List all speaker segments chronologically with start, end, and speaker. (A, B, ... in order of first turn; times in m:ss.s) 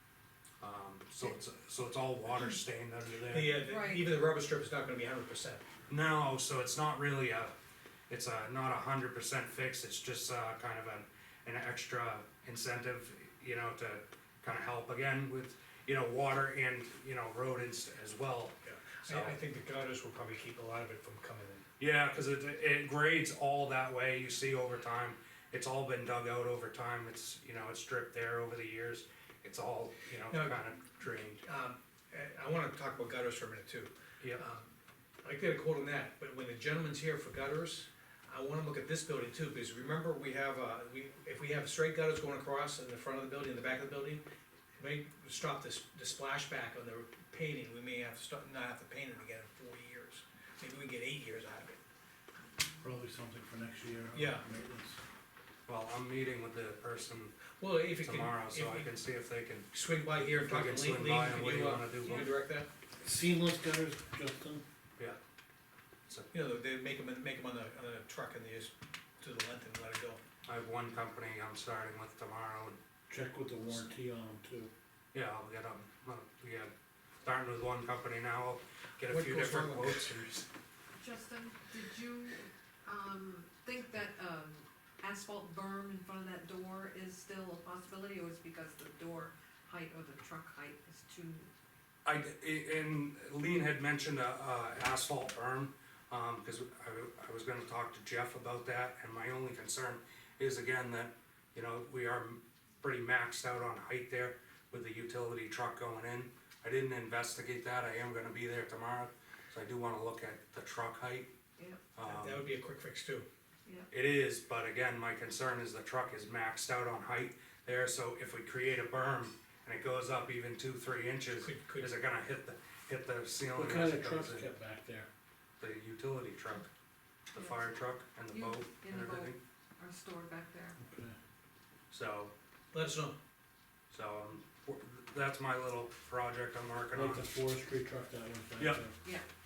0:00.6-0:03.6 A
0:03.3-0:05.6 B
0:03.6-0:04.0 C
0:05.9-0:07.5 A
0:08.1-0:19.4 A
0:18.6-0:21.6 B
0:21.8-0:31.4 A
0:30.3-0:30.6 B
0:31.4-0:34.7 B
0:35.2-0:44.2 B
0:44.8-0:51.8 B
0:52.8-0:55.0 D
0:54.1-0:54.4 B
0:55.7-0:57.3 A
0:57.6-0:58.9 B
0:58.0-0:59.7 A
0:59.7-1:02.7 B
1:00.3-1:02.3 A
1:03.0-1:04.6 D
1:06.3-1:10.2 B
1:10.4-1:12.8 A
1:13.1-1:14.7 D
1:15.1-1:16.7 A
1:17.2-1:20.2 A
1:19.1-1:20.5 B
1:21.0-1:31.5 C
1:32.0-1:51.3 A
1:51.6-1:51.8 C
1:51.9-1:52.4 A
1:52.0-1:53.2 B
1:53.9-2:04.5 A
2:01.3-2:01.9 B
2:03.5-2:05.1 D
2:05.6-2:06.7 A
2:07.3-2:09.4 A
2:07.3-2:07.7 C
2:08.3-2:10.8 C
2:10.8-2:11.2 D
2:11.9-2:12.3 A
2:12.7-2:13.2 B
2:13.9-2:17.4 A
2:16.9-2:18.9 D